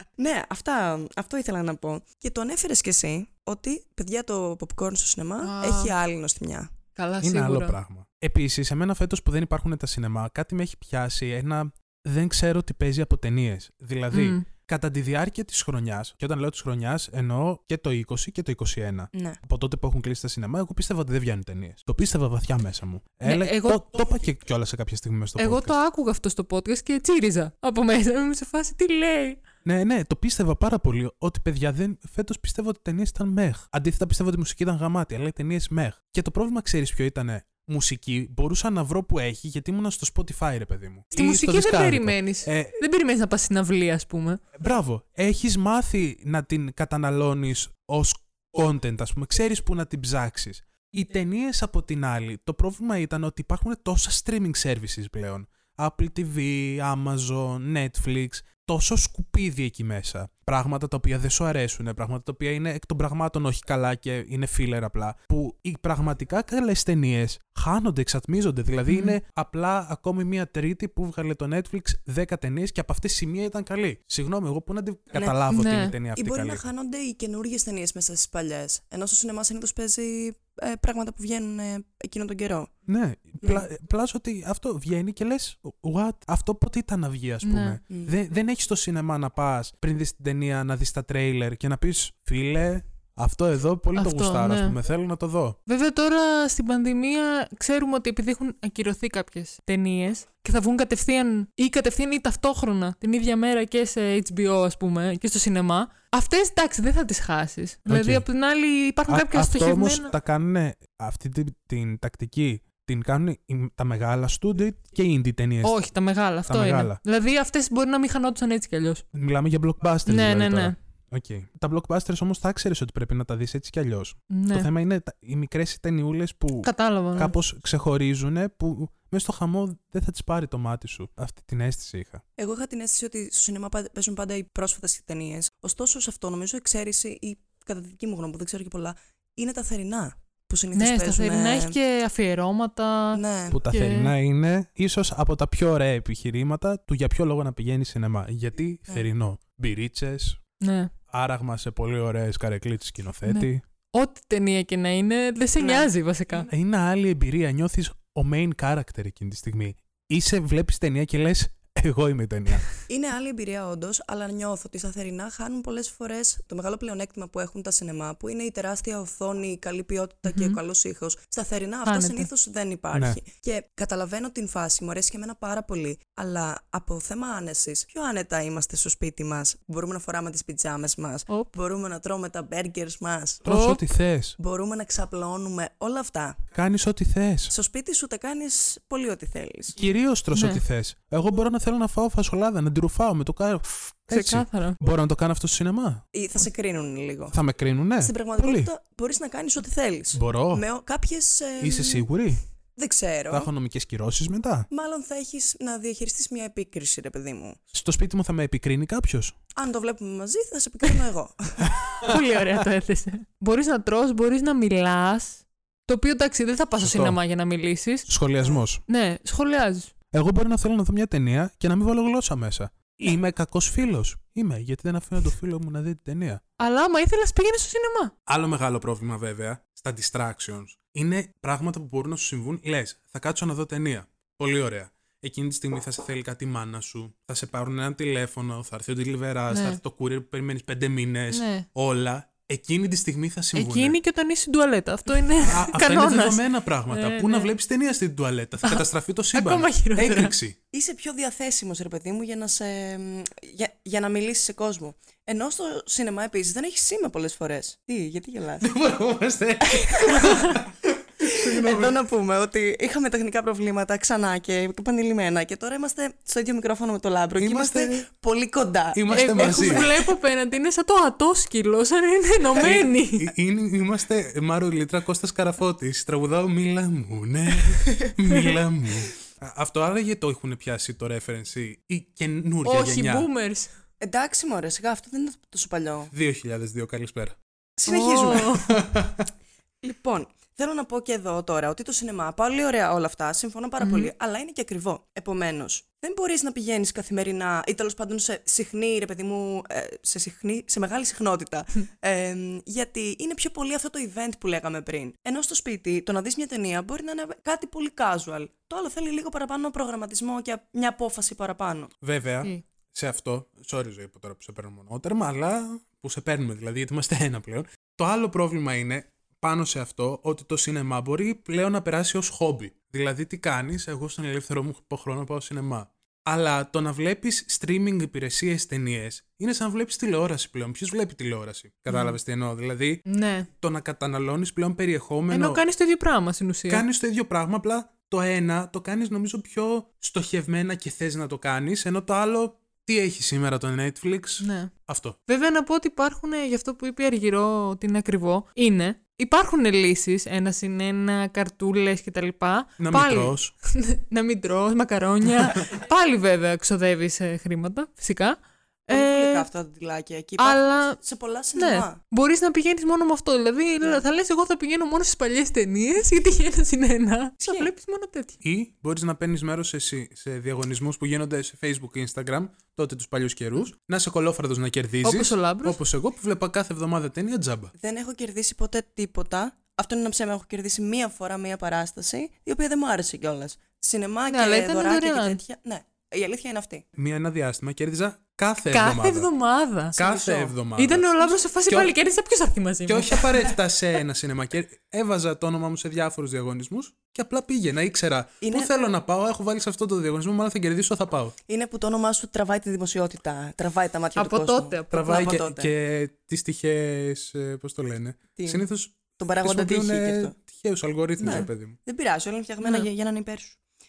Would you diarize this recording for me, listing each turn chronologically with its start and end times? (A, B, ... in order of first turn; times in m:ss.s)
0:00.2-0:06.7 A
0:05.4-0:05.9 B
0:07.0-0:07.8 B
0:07.2-0:25.7 C
0:14.1-0:14.4 B
0:23.2-0:23.9 B
0:25.4-0:29.4 B
0:29.6-0:42.8 C
0:41.1-0:44.4 B
0:44.6-1:16.6 C
1:08.9-1:09.2 B
1:15.5-1:15.9 B
1:16.1-1:22.7 A
1:22.9-1:35.6 C
1:27.4-1:27.8 B
1:27.9-1:28.1 A
1:34.0-1:34.8 B
1:35.7-1:50.1 B
1:47.9-1:48.2 C
1:49.1-1:55.8 C
1:55.6-1:59.0 B
1:56.5-1:57.0 C
1:59.1-2:12.2 C
2:00.0-2:00.8 B
2:04.3-2:04.7 B
2:06.6-2:07.3 B
2:12.4-2:21.8 A
2:20.7-2:24.1 B
2:23.1-2:23.6 A
2:23.5-2:30.4 C
2:30.6-2:30.9 B
2:31.1-2:33.6 C
2:33.2-2:36.5 B
2:35.6-2:35.9 A
2:36.4-2:42.7 C
2:42.9-3:03.4 A
2:50.3-2:50.6 B
2:51.8-2:52.3 B
2:52.9-2:53.2 C
3:03.4-3:04.4 C
3:03.5-3:03.8 B
3:04.4-3:06.4 A
3:06.5-3:07.5 C
3:07.5-3:09.8 A
3:09.8-3:16.0 C
3:10.3-3:10.6 B
3:14.1-3:14.8 B
3:16.1-3:17.4 A
3:17.3-3:18.7 C
3:18.0-3:22.0 A
3:20.1-3:20.6 C
3:21.6-3:22.4 C
3:22.8-3:23.5 A
3:23.3-3:24.7 C
3:24.7-3:27.6 A
3:27.7-3:29.4 C
3:29.6-3:31.8 A
3:31.8-3:32.1 C
3:32.0-3:38.1 B
3:36.8-3:37.2 C
3:38.1-3:38.8 C
3:38.9-3:39.9 B
3:40.1-3:46.4 C
3:46.6-3:48.1 B
3:48.3-4:04.0 C
3:59.5-3:59.8 B
4:01.3-4:01.6 B
4:03.5-4:07.5 B
4:05.4-4:10.6 C
4:08.6-4:10.3 B
4:10.7-4:18.7 A
4:18.6-4:22.0 C
4:19.7-4:20.6 A
4:21.2-4:30.1 A
4:27.4-4:28.0 C
4:28.9-4:29.9 C
4:29.1-4:33.3 B
4:32.6-4:43.3 C
4:42.6-4:43.7 B
4:44.0-4:46.1 A
4:46.1-4:47.4 C
4:47.8-4:48.6 A
4:47.9-4:48.7 B
4:48.5-4:49.3 C
4:49.8-5:11.9 A
4:53.8-4:54.1 B
5:12.0-5:35.6 C
5:31.9-5:32.2 B
5:33.0-5:33.5 B
5:35.3-5:36.8 B
5:36.7-5:45.2 C
5:44.4-5:44.7 B
5:45.3-5:59.5 B
5:52.8-5:53.5 C
5:58.9-6:02.0 A
6:00.4-6:01.0 B
6:01.6-6:08.4 B
6:07.4-6:07.7 A
6:08.4-6:17.7 C
6:15.0-6:15.8 B
6:17.8-6:26.8 A
6:24.3-6:25.4 B
6:27.0-6:29.3 C
6:28.7-6:33.5 B
6:29.9-6:31.1 C
6:30.0-6:30.5 A
6:31.7-6:31.9 C
6:32.9-6:41.4 C
6:38.4-6:38.7 A
6:41.5-6:45.7 A
6:44.2-6:45.3 B
6:44.9-6:51.8 C
6:48.4-6:48.6 A
6:49.2-6:50.3 A
6:51.2-6:51.4 B
6:51.2-6:53.6 A